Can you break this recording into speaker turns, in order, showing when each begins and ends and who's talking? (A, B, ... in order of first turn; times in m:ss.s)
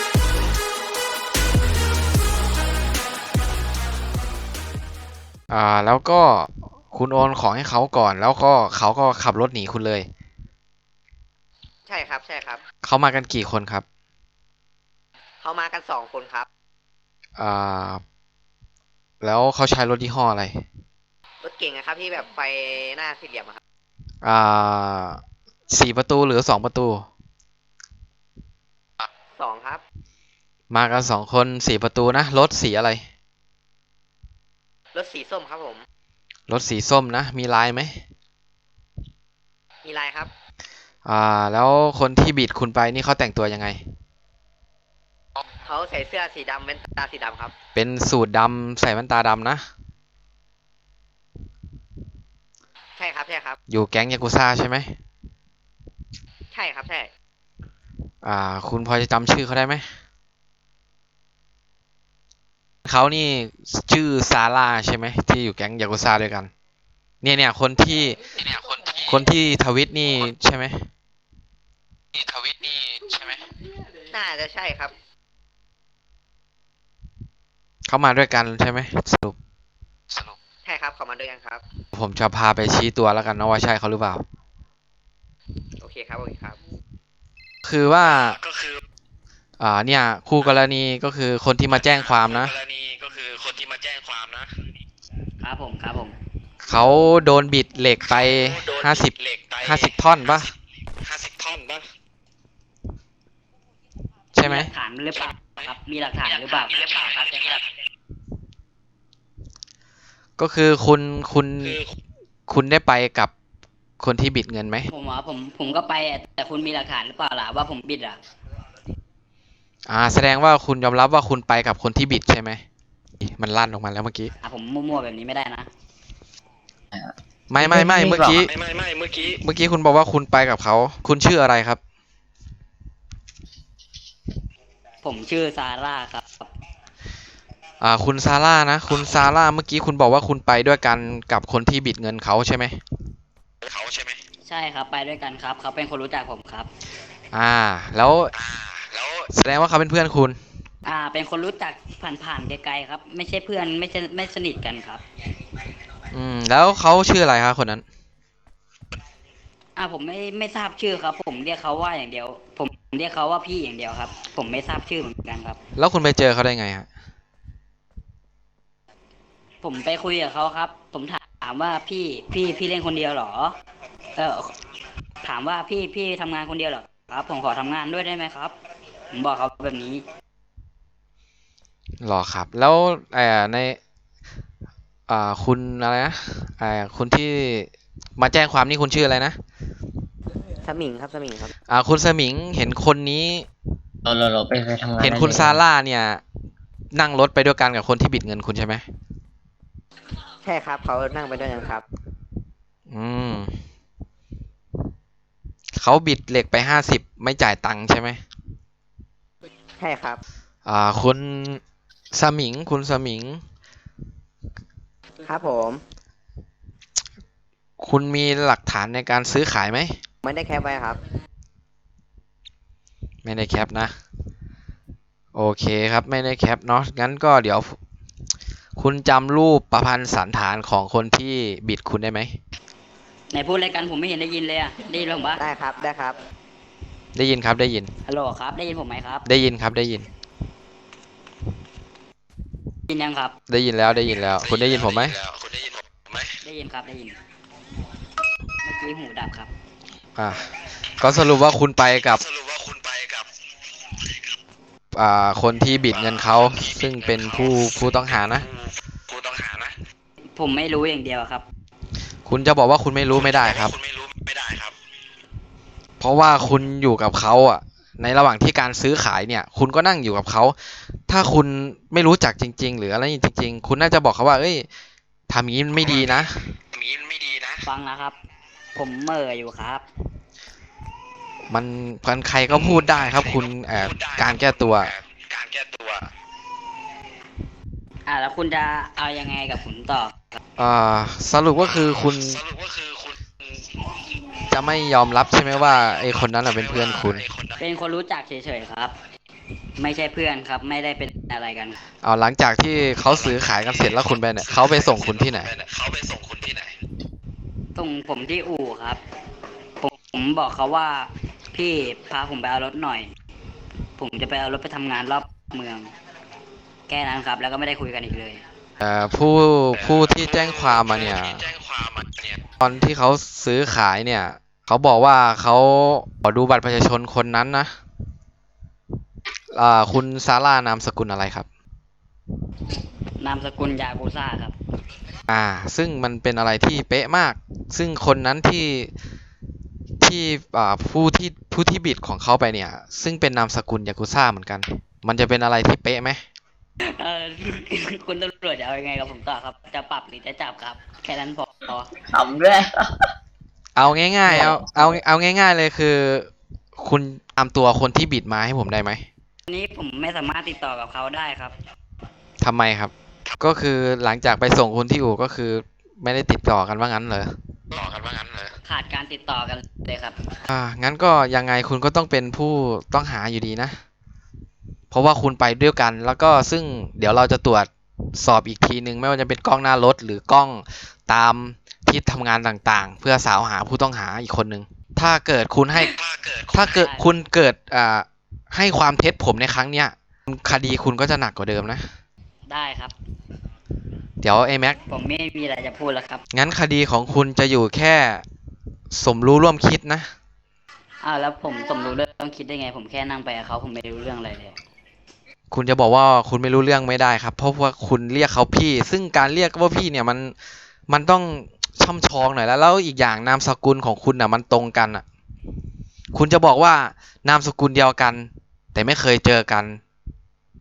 0:05.5-0:10.1 A
0:11.9-0:12.6 B
0:12.8-0:13.8 A
0:15.4-0:16.5 B
0:17.4-0:18.0 A
0:19.2-0:20.6 A
0:21.4-0:23.6 B
0:24.2-0:27.1 A
0:29.4-0:29.8 B
0:30.7-0:33.0 A
0:34.9-0:35.8 B
0:36.5-0:38.0 A
0:39.8-0:40.3 B
0:41.0-0:43.8 A
0:45.6-0:47.5 B
0:47.8-0:49.6 A
0:53.0-0:53.6 B
0:53.7-0:55.0 A
0:56.5-0:57.1 B
0:58.2-0:59.9 A
1:02.8-1:06.5 A
1:07.2-1:10.9 A
1:12.2-1:13.4 C
1:14.1-1:14.9 B
1:17.9-1:19.4 A
1:20.6-1:21.6 B
1:21.9-1:24.2 A
1:25.8-1:26.6 B
1:27.6-1:28.4 A
1:28.2-1:28.8 C
1:29.6-1:32.5 A
1:31.8-1:34.5 C
1:35.4-1:36.2 D
1:36.6-1:40.5 A
1:38.2-1:39.9 C
1:41.0-1:41.8 C
1:44.3-1:44.7 A
1:44.4-1:47.3 D
1:46.8-1:47.6 C
1:50.4-1:51.8 A
1:52.5-1:53.3 A
1:54.0-1:54.9 A
1:54.9-1:58.2 D
1:59.9-2:02.6 A
2:03.2-2:04.3 A
2:04.4-2:05.7 D
2:06.9-2:08.5 E
2:07.5-2:08.5 A
2:08.5-2:09.4 C
2:09.3-2:11.8 A
2:15.0-2:16.5 D
2:17.8-2:22.8 A
2:23.6-2:24.2 C
2:24.4-2:26.7 D
2:27.3-2:28.3 A
2:28.4-2:29.3 C
2:29.3-2:30.4 A
2:30.8-2:35.0 D
2:36.1-2:37.8 A
2:39.8-2:45.6 D
2:45.8-2:46.9 A
2:49.6-2:53.6 D
2:54.2-2:54.5 D
2:55.2-2:58.5 D
2:59.1-3:00.0 D
3:02.0-3:03.8 A
3:05.1-3:09.4 A
3:10.6-3:11.5 B
3:11.7-3:13.5 A
3:14.0-3:15.6 E
3:15.0-3:16.2 A
3:16.9-3:18.8 A
3:20.4-3:21.8 B
3:22.9-3:23.6 A
3:25.8-3:28.2 A
3:29.8-3:30.2 B
3:30.6-3:31.6 A
3:32.1-3:33.4 A
3:35.2-3:35.8 B
3:37.8-3:40.0 A
3:40.2-3:41.0 B
3:43.2-3:44.0 A
3:45.4-3:47.8 A
3:48.8-3:52.4 A
3:53.3-3:55.5 D
3:55.4-3:56.2 B
3:57.2-3:57.9 A
3:58.0-3:59.2 D
3:59.2-4:00.1 A
4:02.9-4:03.4 D
4:03.5-4:05.2 A
4:04.4-4:06.2 C
4:06.4-4:07.2 D
4:08.6-4:09.5 D
4:10.2-4:12.2 A
4:12.2-4:13.3 C
4:14.9-4:18.5 A
4:15.9-4:19.8 C
4:20.2-4:21.4 D
4:22.3-4:23.8 A
4:23.2-4:24.7 C
4:26.0-4:34.7 A
4:35.3-4:36.6 A
4:36.7-4:37.6 C
4:37.6-4:38.2 D
4:38.8-4:39.8 D
4:41.5-4:44.9 A
4:43.8-4:46.1 C
4:48.1-4:50.4 D
4:50.6-4:52.4 A
4:51.9-4:53.2 C
4:54.5-4:57.2 A
4:56.5-4:57.6 C
4:57.6-4:58.9 D
4:59.8-5:01.8 D
5:02.0-5:05.5 A
5:03.1-5:06.7 C
5:07.8-5:09.0 D
5:09.8-5:13.1 D
5:14.0-5:15.9 D
5:16.9-5:18.4 D
5:18.8-5:21.5 A
5:19.7-5:22.4 C
5:22.6-5:27.7 A
5:29.5-5:31.5 A
5:33.2-5:34.6 D
5:35.3-5:38.9 A
5:40.0-5:46.2 A
5:46.9-5:51.9 D
5:52.0-5:53.1 E
5:53.8-5:59.1 A
5:54.3-5:55.0 E
5:59.5-6:01.6 D
6:02.4-6:07.3 A
6:07.7-6:08.5 C
6:08.7-6:10.2 D
6:10.5-6:13.8 A
6:14.9-6:25.9 A
6:25.9-6:26.7 C
6:26.5-6:31.9 A
6:26.7-6:27.1 D
6:32.5-6:32.9 D
6:34.2-6:34.8 A
6:34.9-6:36.2 D
6:36.3-6:38.2 A
6:38.9-6:40.1 A
6:41.0-6:44.6 D
6:45.5-6:50.3 A
6:50.9-6:55.0 A
6:56.1-6:59.8 A